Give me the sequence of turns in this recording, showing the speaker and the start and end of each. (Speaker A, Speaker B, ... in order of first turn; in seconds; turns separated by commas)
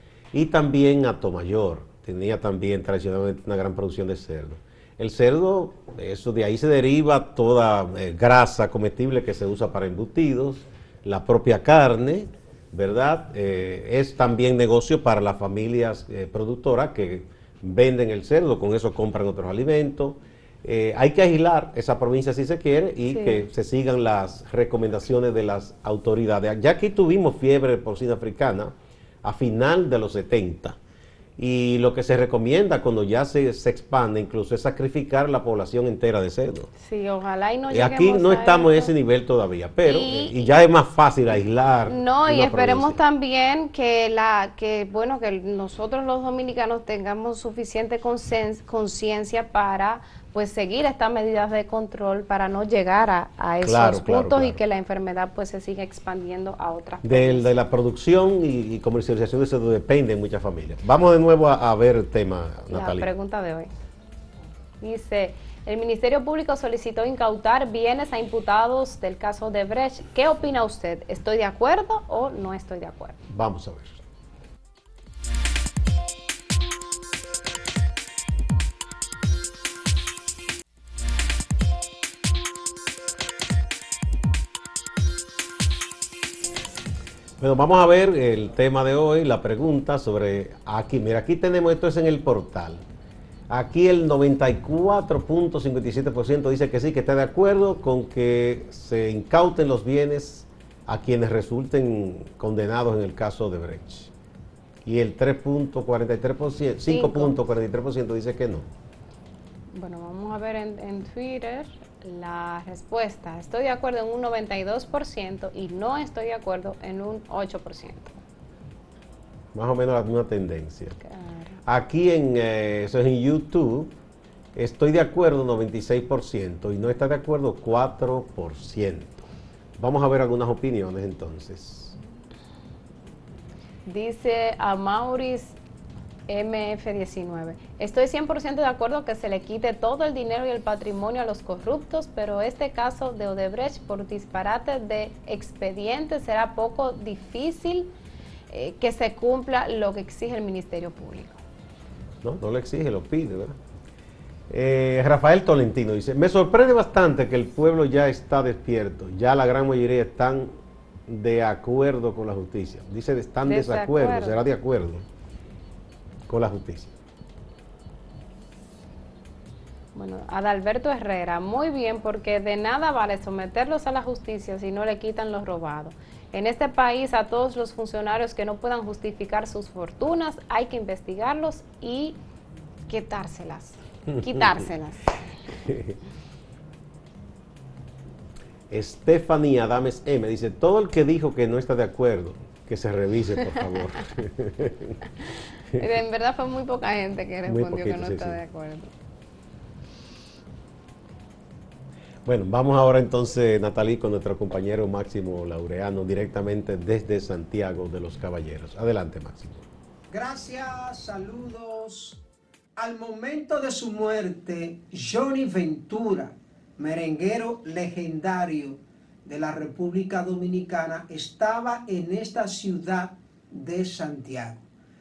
Speaker A: 0.3-30.8, Speaker B: 23.1-23.5, Speaker A: 31.4-36.7, Speaker B: 36.8-38.9, Speaker A: 37.7-43.0, Speaker B: 39.8-40.5, Speaker B: 41.9-57.5, Speaker A: 53.6-54.6, Speaker A: 57.0-63.1, Speaker B: 62.7-63.7, Speaker B: 64.8-73.2, Speaker A: 73.3-74.0, Speaker A: 87.4-92.8, Speaker A: 93.5-104.1, Speaker A: 104.8-108.7, Speaker B: 106.9-107.3, Speaker B: 109.7-118.2, Speaker A: 119.5-121.0, Speaker B: 121.0-121.6, Speaker A: 121.6-123.9, Speaker A: 124.5-129.2, Speaker A: 129.8-132.0, Speaker B: 133.8-135.6, Speaker B: 136.3-147.9, Speaker B: 148.5-151.4, Speaker A: 152.2-153.6, Speaker A: 154.5-160.5, Speaker A: 161.1-165.0, Speaker B: 163.4-164.4, Speaker A: 166.3-166.9, Speaker B: 169.9-182.2, Speaker B: 182.9-185.2, Speaker A: 184.1-184.6, Speaker A: 185.7-185.9, Speaker A: 188.7-195.0, Speaker B: 195.7-198.9, Speaker A: 197.4-198.4, Speaker A: 202.2-209.7, Speaker C: 210.1-212.2, Speaker C: 212.8-224.6